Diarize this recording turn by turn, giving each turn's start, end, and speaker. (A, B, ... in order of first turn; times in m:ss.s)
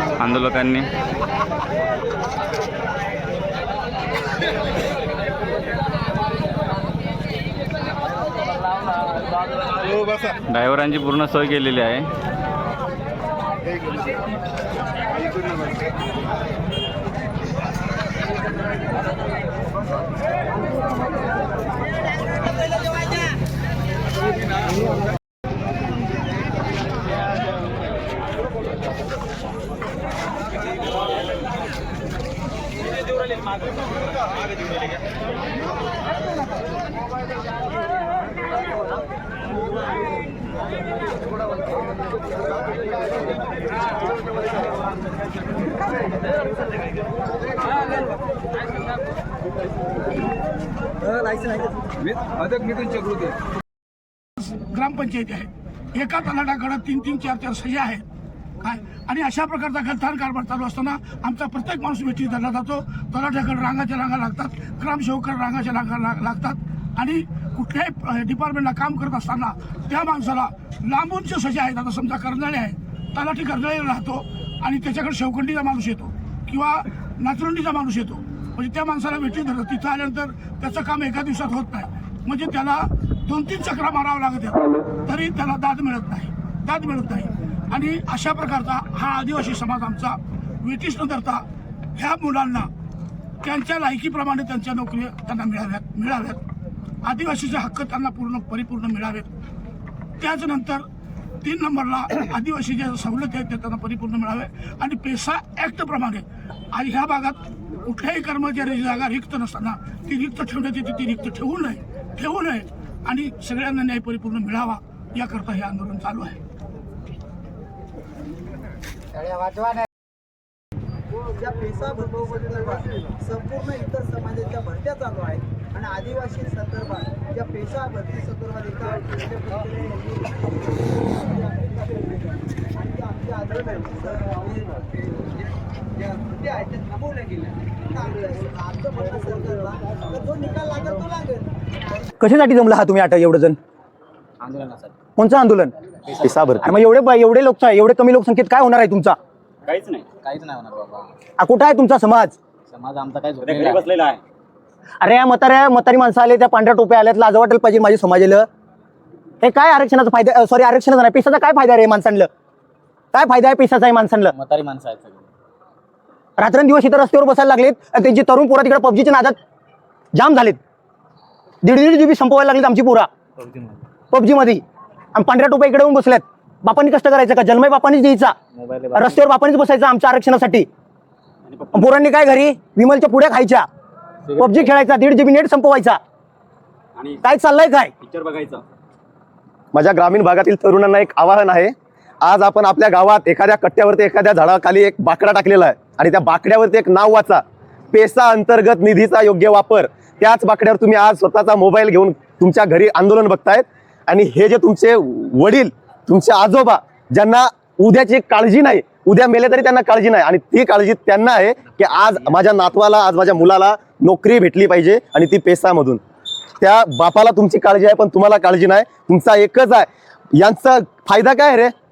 0:00.2-0:00.8 A
0:10.5-0:12.0 A
0:54.4-0:58.0 B
0:58.6-1:31.4 B
1:32.0-1:32.7 B
1:33.4-1:36.4 B
1:37.0-1:39.3 B
1:40.2-1:40.8 B
1:41.4-1:56.4 B
2:01.4-2:10.0 C
2:13.1-2:14.4 C
2:18.0-2:21.4 C
2:22.2-2:23.6 D
2:24.4-2:25.0 E
2:25.2-2:25.7 D
2:26.2-2:26.6 F
2:26.6-2:29.2 D
2:30.1-2:31.1 E
2:31.4-2:32.4 D
2:32.7-2:33.9 E
2:35.0-2:38.5 D
2:39.4-2:42.3 D
2:43.1-2:44.3 D
2:44.3-2:45.3 E
2:46.4-2:49.4 D
2:50.1-2:50.6 D
2:51.6-2:53.1 D
2:53.4-2:53.8 E
2:54.1-2:54.6 D
2:55.2-2:58.4 D
2:58.5-2:59.3 E
2:58.9-3:00.7 D
3:01.7-3:03.7 D
3:04.4-3:06.0 D
3:04.4-3:04.7 E
3:07.2-3:07.9 D
3:09.7-3:36.0 F
3:36.6-3:41.7 F